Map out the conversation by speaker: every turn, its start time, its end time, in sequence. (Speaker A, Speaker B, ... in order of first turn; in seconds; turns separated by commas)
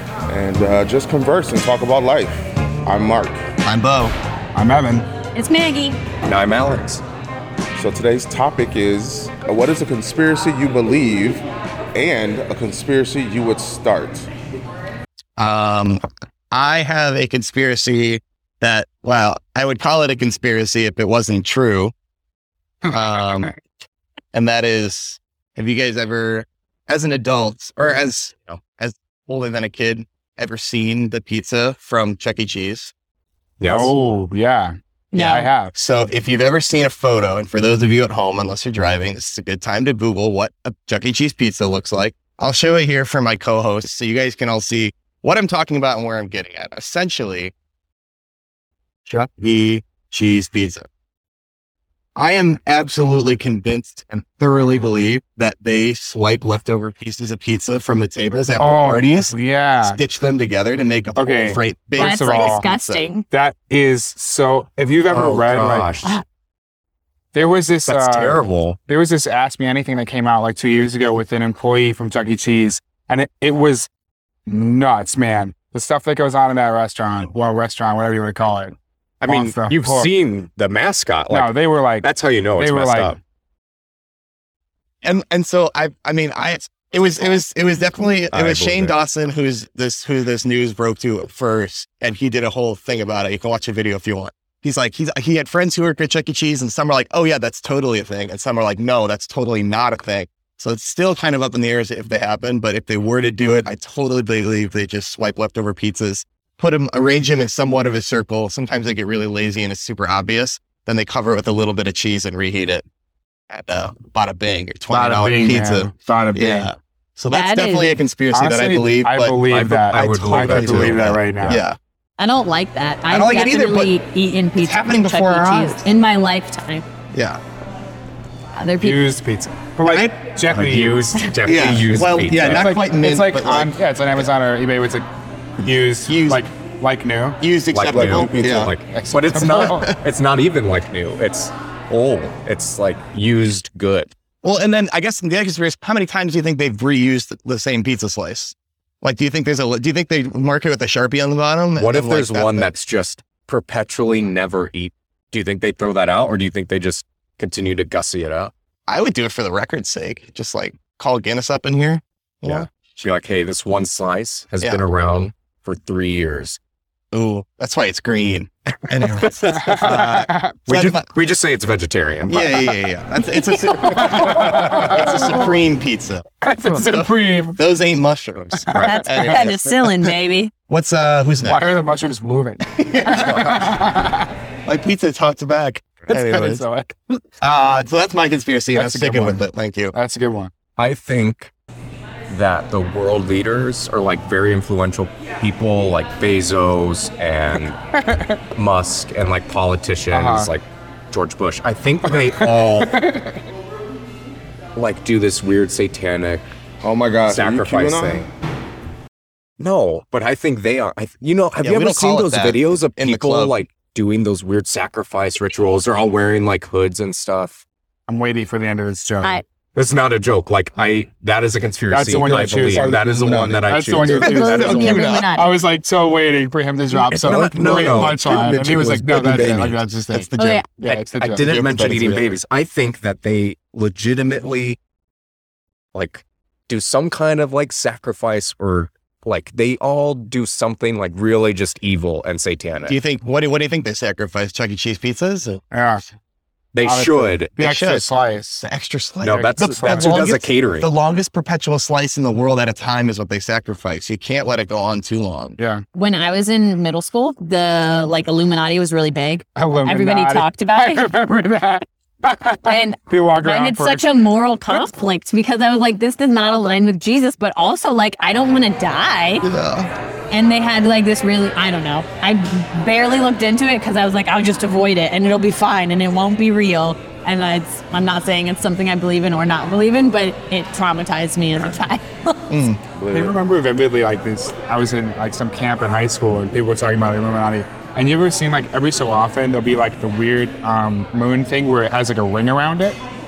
Speaker A: 0.3-3.4, Speaker B: 3.6-4.1, Speaker C: 4.5-5.0, Speaker D: 5.3-6.0, Speaker E: 6.2-7.0, Speaker A: 7.7-14.3, Speaker B: 15.4-21.9, Speaker B: 22.9-23.5, Speaker B: 24.3-32.9, Speaker E: 33.6-33.9, Speaker C: 33.6-35.7, Speaker D: 35.1-35.5, Speaker B: 35.7-47.5, Speaker B: 49.0-50.9, Speaker B: 52.1-63.0, Speaker C: 58.6-60.0, Speaker C: 61.1-62.6, Speaker D: 62.0-63.2, Speaker C: 63.3-65.9, Speaker E: 65.1-66.2, Speaker C: 67.3-73.9, Speaker E: 67.9-68.8, Speaker C: 74.5-78.7, Speaker E: 79.2-83.2, Speaker C: 79.3-80.1, Speaker C: 81.3-83.2, Speaker B: 85.0-112.8, Speaker E: 88.3-89.0, Speaker B: 113.5-119.4, Speaker C: 114.9-116.7, Speaker D: 117.3-118.0, Speaker C: 118.3-121.6, Speaker E: 119.5-121.6, Speaker B: 119.9-121.8, Speaker D: 122.2-126.8, Speaker B: 123.1-124.0, Speaker B: 124.6-125.9, Speaker B: 127.1-127.4, Speaker D: 128.6-129.1, Speaker C: 128.8-131.2, Speaker B: 129.8-130.1, Speaker E: 130.5-132.7, Speaker B: 131.4-133.8, Speaker C: 132.4-135.1, Speaker C: 135.6-137.4, Speaker B: 136.1-136.4, Speaker B: 137.4-138.7, Speaker E: 137.7-144.1, Speaker A: 137.9-138.7, Speaker C: 138.9-139.9, Speaker B: 139.4-140.0, Speaker B: 144.4-152.7, Speaker E: 151.8-158.5, Speaker B: 158.9-162.7, Speaker E: 162.4-166.6, Speaker B: 167.1-171.1, Speaker C: 169.6-170.5, Speaker E: 169.7-170.0, Speaker E: 170.7-172.7, Speaker B: 172.3-180.1, Speaker C: 173.9-175.2, Speaker C: 176.4-177.6, Speaker C: 178.6-179.4, Speaker D: 178.8-180.5, Speaker B: 180.7-181.6, Speaker C: 181.4-184.3, Speaker B: 182.7-183.8, Speaker B: 184.7-186.6, Speaker C: 186.1-187.2, Speaker B: 187.4-189.9, Speaker C: 188.7-189.4, Speaker C: 189.9-190.5, Speaker E: 190.8-191.5, Speaker E: 192.3-197.8, Speaker E: 198.5-203.1, Speaker C: 200.1-200.5, Speaker C: 202.1-203.4, Speaker E: 204.7-206.4, Speaker A: 206.8-208.2, Speaker E: 207.3-208.3, Speaker E: 209.6-217.6, Speaker B: 211.6-213.6, Speaker C: 218.1-219.4, Speaker E: 219.7-224.8, Speaker C: 221.9-223.0, Speaker A: 222.1-224.4, Speaker C: 223.7-231.8, Speaker D: 224.2-225.5, Speaker B: 224.2-225.3, Speaker E: 227.1-228.7, Speaker B: 227.3-230.8, Speaker A: 227.5-228.0, Speaker D: 230.4-230.7, Speaker E: 230.9-234.8, Speaker B: 231.4-232.3, Speaker E: 235.9-243.0, Speaker B: 242.8-245.6, Speaker C: 245.7-246.0, Speaker E: 246.7-247.8, Speaker C: 246.8-248.6, Speaker B: 247.6-248.1, Speaker B: 248.6-255.6, Speaker E: 249.2-250.9, Speaker C: 249.3-250.3, Speaker C: 255.6-255.8, Speaker D: 255.9-261.1, Speaker C: 259.6-264.0, Speaker D: 262.6-269.4, Speaker B: 269.4-269.9, Speaker D: 270.3-282.6, Speaker B: 282.5-282.8, Speaker A: 282.9-283.3, Speaker C: 283.1-293.0